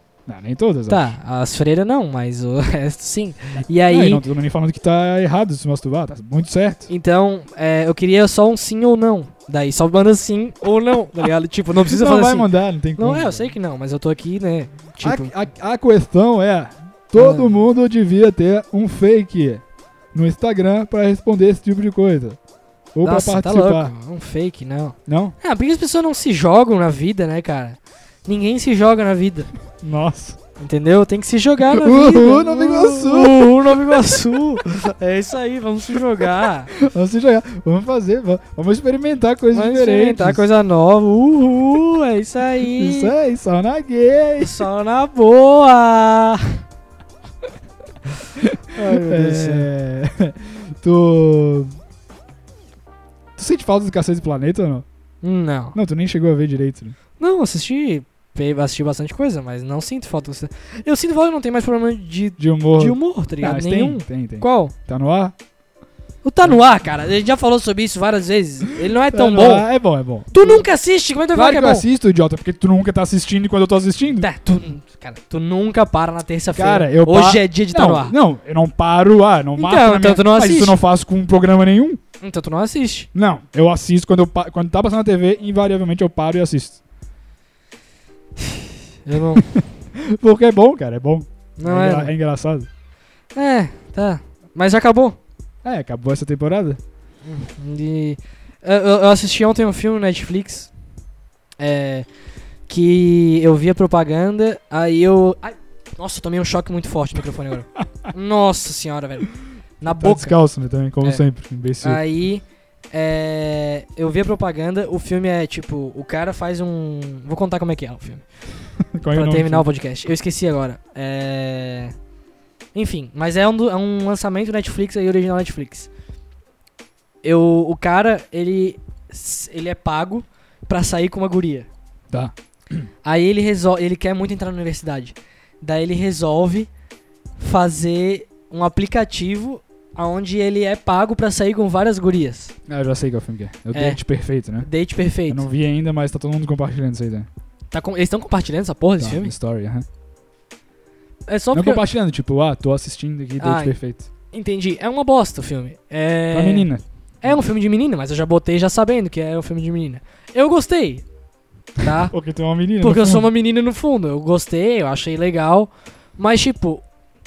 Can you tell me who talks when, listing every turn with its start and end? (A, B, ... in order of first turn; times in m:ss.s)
0:00.3-0:01.1 A
0:00.9-0:04.2 B
0:03.9-0:06.9 A
0:06.9-0:15.3 B
0:11.8-0:13.5 A
0:15.0-0:19.6 A
0:17.2-0:17.5 B
0:20.1-0:22.4 A
0:22.9-0:23.9 A
0:23.0-0:29.5 B
0:25.1-0:25.4 A
0:29.8-0:30.4 A
0:30.6-0:36.7 B
0:31.7-0:34.4 A
0:36.7-0:40.4 A
0:39.5-0:43.1 B
0:42.7-0:44.6 A
0:44.4-0:46.6 B
0:48.4-0:51.7 A
0:48.7-0:49.7 B
0:53.4-0:54.8 A
0:55.2-0:55.8 B
0:55.7-0:57.0 A
0:57.2-1:04.7 B
1:02.4-1:05.3 A
1:06.2-1:09.6 B
1:08.8-1:10.6 A
1:10.3-1:11.8 B
1:11.3-1:14.3 A
1:14.2-1:18.1 B
1:16.5-1:22.0 A
1:19.6-1:20.8 B
1:22.2-1:23.1 B
1:23.1-1:26.8 A
1:29.0-1:29.5 B
1:29.4-1:32.7 A
1:31.6-1:32.1 B
1:33.3-1:35.2 B
1:35.6-1:36.8 A
1:37.2-1:40.7 B
1:41.6-1:42.0 B
1:42.7-1:50.3 B
1:49.8-1:52.0 A
1:51.8-1:58.2 B
1:58.9-1:59.6 A
1:59.1-2:01.9 B
2:02.7-2:05.9 B
2:07.2-2:11.7 B
2:12.1-2:12.9 A
2:13.0-2:16.7 B
2:17.4-2:22.5 B
2:22.7-2:24.7 A
2:23.7-2:24.0 B
2:24.6-2:25.4 B
2:25.3-2:27.3 A
2:27.7-2:29.3 B
2:29.0-2:29.8 A
2:31.3-2:31.8 B
2:31.5-2:34.1 A
2:33.4-2:33.8 B
2:34.3-2:36.7 B
2:36.3-2:37.3 A
2:37.2-2:41.0 B
2:41.8-2:42.1 B
2:41.9-2:43.3 A
2:42.8-2:46.8 B